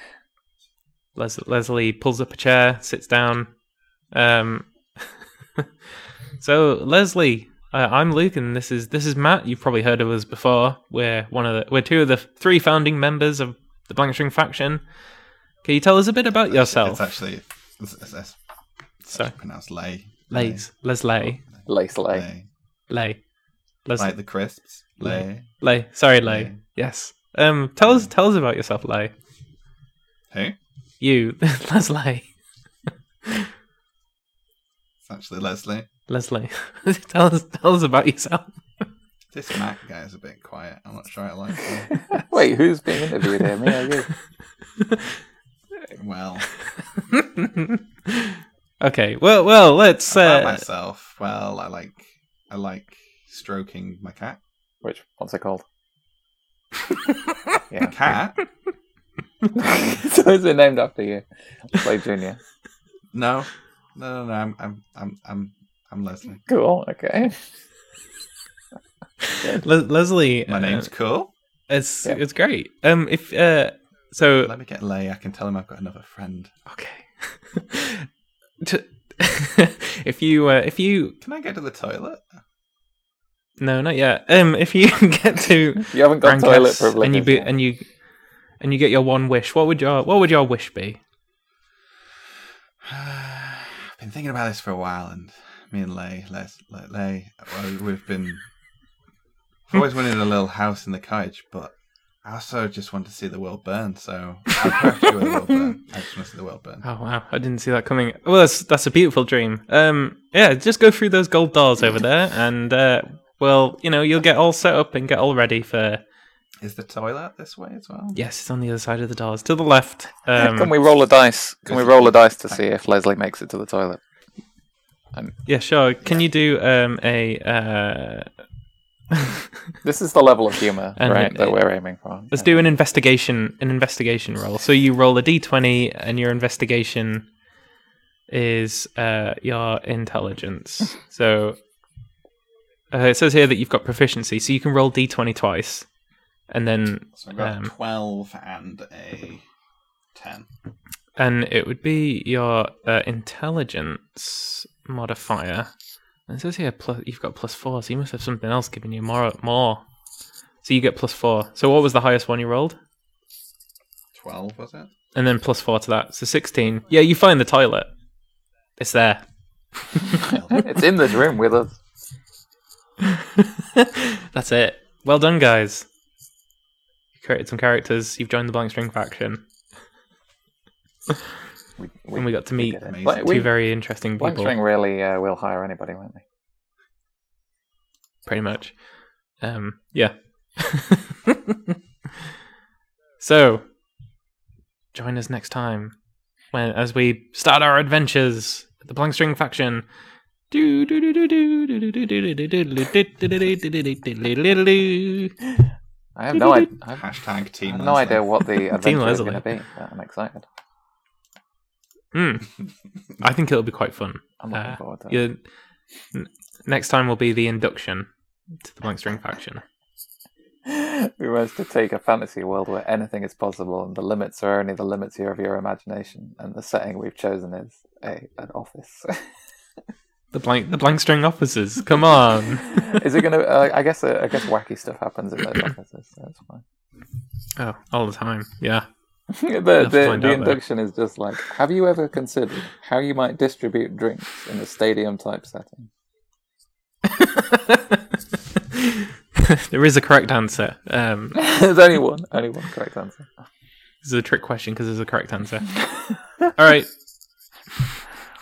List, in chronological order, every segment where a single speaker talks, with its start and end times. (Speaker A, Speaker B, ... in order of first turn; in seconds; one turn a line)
Speaker A: 1.1-3.5
Speaker A: 4.1-4.7
Speaker A: 6.4-14.8
Speaker A: 15.6-17.0
Speaker B: 16.5-18.4
Speaker B: 19.0-20.7
Speaker A: 20.3-21.4
Speaker B: 21.5-22.4
Speaker C: 21.6-22.3
Speaker A: 22.9-23.2
Speaker A: 23.8-24.1
Speaker B: 24.0-25.5
Speaker A: 25.0-29.1
Speaker B: 26.2-26.6
Speaker B: 30.3-30.6
Speaker A: 31.0-32.3
Speaker B: 35.0-35.9
Speaker A: 36.1-38.9
Speaker B: 39.3-42.2
Speaker C: 42.0-44.1
Speaker B: 45.9-46.5
Speaker A: 47.1-50.6
Speaker B: 50.1-54.4
Speaker C: 54.8-55.6
Speaker C: 57.7-57.9
Speaker B: 57.8-58.4
Speaker C: 59.5-62.4
Speaker B: 63.1-66.5
Speaker C: 66.5-67.4
Speaker A: 69.2-70.9
Speaker B: 70.5-71.3
Speaker A: 71.7-74.5
Speaker B: 74.4-76.5
Speaker A: 76.7-78.1
Speaker A: 78.6-81.2
Speaker B: 81.2-82.2
Speaker A: 83.6-87.9
Speaker C: 85.8-87.5
Speaker A: 88.6-91.0
Speaker B: 92.8-98.4
Speaker B: 99.7-106.8
Speaker A: 106.8-116.0
Speaker B: 116.6-118.2
Speaker A: 118.1-120.7
Speaker C: 120.4-124.0
Speaker B: 121.7-122.6
Speaker A: 125.5-128.3
Speaker C: 129.8-132.7
Speaker A: 131.0-131.6
Speaker A: 132.3-137.3
Speaker A: 138.3-141.6
Speaker A: 142.9-145.8
Speaker A: 146.5-147.7
Speaker B: 147.2-149.4
Speaker B: 150.1-150.5
Speaker A: 151.2-155.7
Speaker A: 156.3-159.8
Speaker A: 160.6-162.8
Speaker B: 164.1-164.9
Speaker A: 165.1-167.9
Speaker A: 168.8-169.2
Speaker A: 169.9-170.3
Speaker B: 170.1-170.6
Speaker C: 170.5-171.7
Speaker A: 173.0-175.9
Speaker A: 177.2-179.4
Speaker C: 181.8-183.5
Speaker A: 182.2-184.5
Speaker B: 182.8-183.4
Speaker C: 184.2-186.2
Speaker A: 188.2-191.7
Speaker A: 193.2-193.7
Speaker A: 194.9-195.9
Speaker A: 196.5-199.8
Speaker A: 200.5-205.5
Speaker C: 206.2-207.0
Speaker A: 206.3-206.7
Speaker B: 206.9-208.2
Speaker C: 207.6-210.4
Speaker A: 208.5-209.5
Speaker A: 212.1-212.5
Speaker A: 213.2-215.4
Speaker C: 214.4-215.2
Speaker A: 216.1-218.1
Speaker A: 218.6-219.6
Speaker C: 220.7-229.2
Speaker A: 230.3-233.0
Speaker C: 232.7-236.6
Speaker A: 237.6-238.9
Speaker C: 239.3-245.9
Speaker A: 239.8-240.6
Speaker A: 247.0-248.0
Speaker A: 248.6-251.4
Speaker C: 251.3-253.3
Speaker A: 254.0-255.7
Speaker A: 256.5-256.9